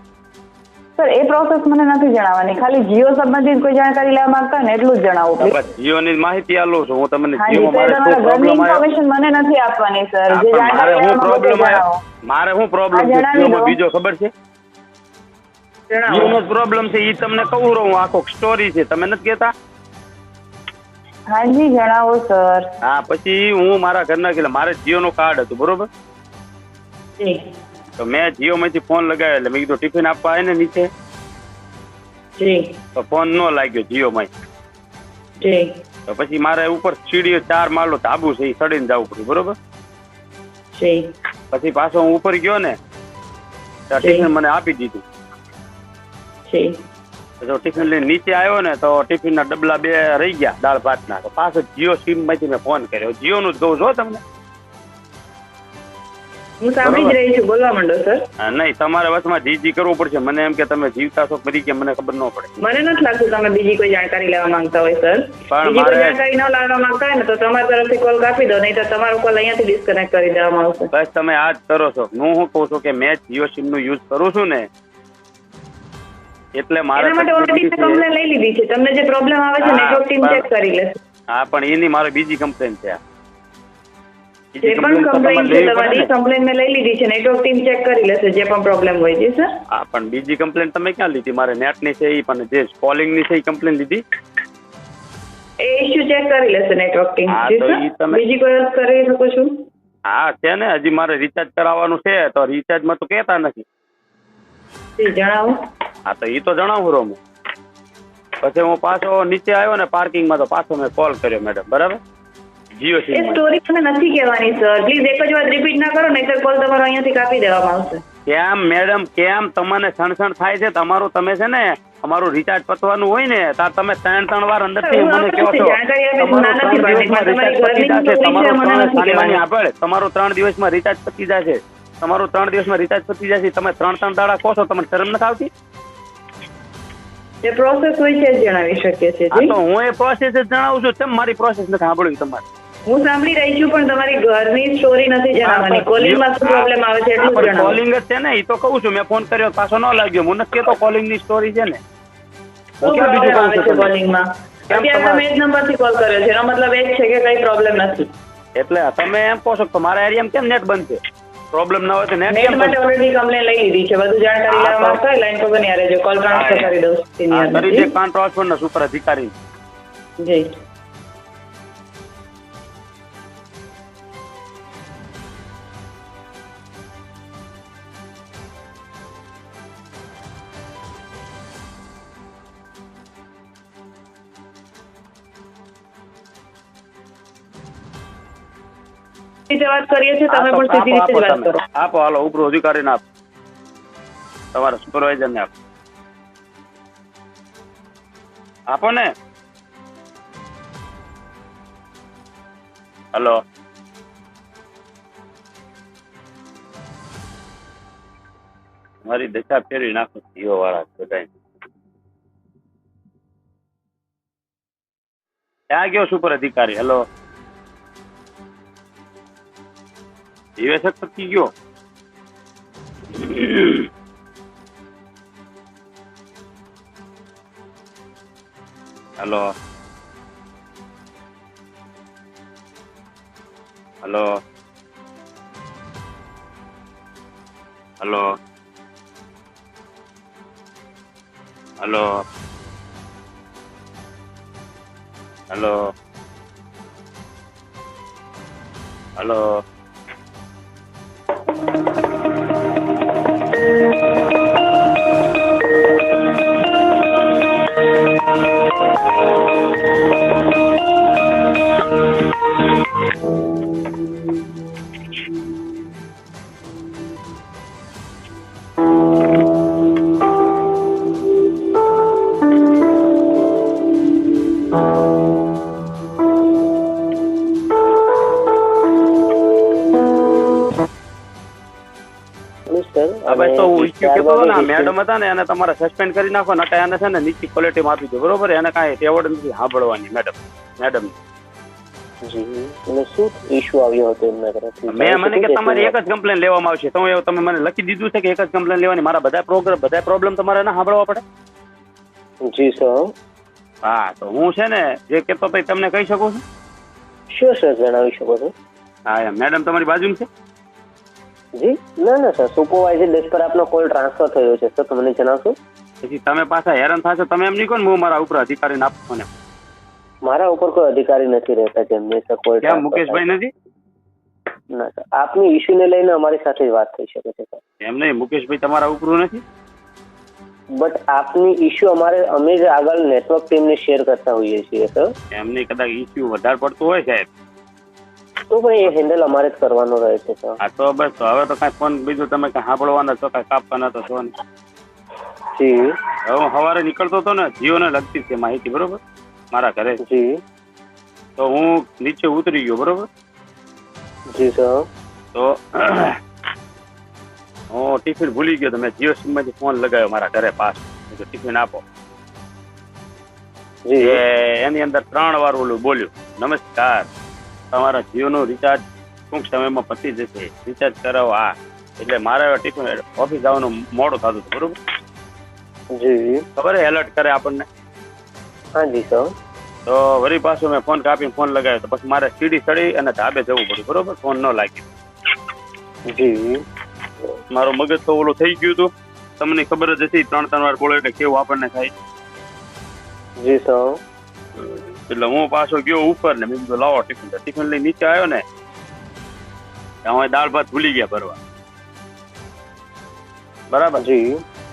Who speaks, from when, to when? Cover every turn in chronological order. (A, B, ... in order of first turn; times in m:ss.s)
0:01.0-0:05.6 A
0:05.4-0:08.8 B
0:07.4-0:12.0 A
0:10.3-0:14.3 B
0:12.9-0:13.8 A
0:15.9-0:16.4 A
0:16.1-0:19.5 B
0:21.3-0:22.7 A
0:22.8-0:25.9 B
0:27.2-0:27.4 A
0:28.0-0:30.9 B
0:32.4-0:32.8 A
0:33.0-0:34.3 B
0:35.4-0:35.7 A
0:36.1-0:39.6 B
0:40.7-0:41.1 A
0:41.5-0:42.8 B
0:43.9-0:45.0 B
0:44.0-0:44.3 A
0:46.5-0:46.8 A
0:47.4-0:54.2 B
0:56.6-0:58.2 A
0:56.8-0:57.2 B
0:58.4-1:02.5 B
1:02.6-1:10.9 A
1:05.5-1:06.2 B
1:10.9-1:14.7 B
1:16.6-1:18.0 B
1:17.0-1:21.0 A
1:19.6-1:20.4 B
1:21.3-1:23.0 B
1:24.5-1:26.1 B
1:24.6-1:29.5 A
1:29.7-1:34.0 B
1:35.6-1:39.5 A
1:37.3-1:38.2 B
1:40.1-1:43.6 B
1:45.0-1:45.6 A
1:46.1-1:47.2 B
1:48.4-1:52.0 B
1:52.8-1:53.4 B
1:53.1-1:58.0 A
1:58.3-2:15.5 B
2:04.8-2:09.4 A
2:17.4-2:19.6 A
2:19.3-2:22.4 B
2:22.9-2:27.8 A
2:25.4-2:26.7 B
2:27.2-2:31.8 B
2:32.8-2:33.9 B
2:32.8-2:38.1 A
2:34.7-2:35.2 B
2:38.6-2:41.0 B
2:41.5-2:42.8 B
2:42.3-2:47.9 A
2:44.5-2:45.0 B
2:46.3-2:46.7 B
2:47.3-2:49.4 B
2:50.2-2:50.5 A
3:09.5-3:11.6 A
3:10.3-3:13.0 B
3:14.5-3:15.5 B
3:18.7-3:19.1 B
3:23.1-3:23.4 B
3:29.0-3:31.3 B
3:35.7-3:37.0 B
3:40.6-3:41.5 B
3:43.1-3:43.9 B
3:49.2-3:49.5 B
3:54.0-3:54.3 B
3:58.0-3:58.3 B
4:01.8-4:02.1 B
4:05.5-4:05.8 B
4:09.2-4:09.4 B
4:42.7-4:44.9 C
4:43.3-4:51.1 B
4:52.3-4:55.9 C
4:54.9-5:01.2 B
5:02.5-5:03.0 C
5:03.8-5:06.4 B
5:07.3-5:08.5 C
5:09.1-5:10.3 B
5:11.6-5:15.6 C
5:16.0-5:19.3 B
5:20.3-5:23.2 C
5:22.6-5:23.5 B
5:24.7-5:27.6 C
5:27.8-5:29.4 B
5:30.8-5:35.1 C
5:35.4-5:37.3 B
5:38.5-5:40.6 C
5:40.6-5:44.3 B
5:45.6-5:45.9 C
5:46.3-5:49.0 B
5:49.5-5:50.0 B
5:50.0-5:50.4 C
5:51.4-5:53.1 B
5:54.3-5:54.8 C
5:55.4-5:56.2 B
5:57.7-6:01.8 B
6:03.9-6:04.2 C
6:04.0-6:07.1 B
6:07.7-6:14.8 B
6:16.0-6:16.4 C
6:16.6-6:17.6 B
6:18.8-6:19.3 C
6:19.9-6:24.9 B
6:26.1-6:26.6 C
6:27.5-6:31.9 B
6:33.4-6:34.0 C
6:34.6-6:38.4 B
6:40.0-6:41.4 B
6:43.7-6:44.0 B
6:44.0-6:44.4 C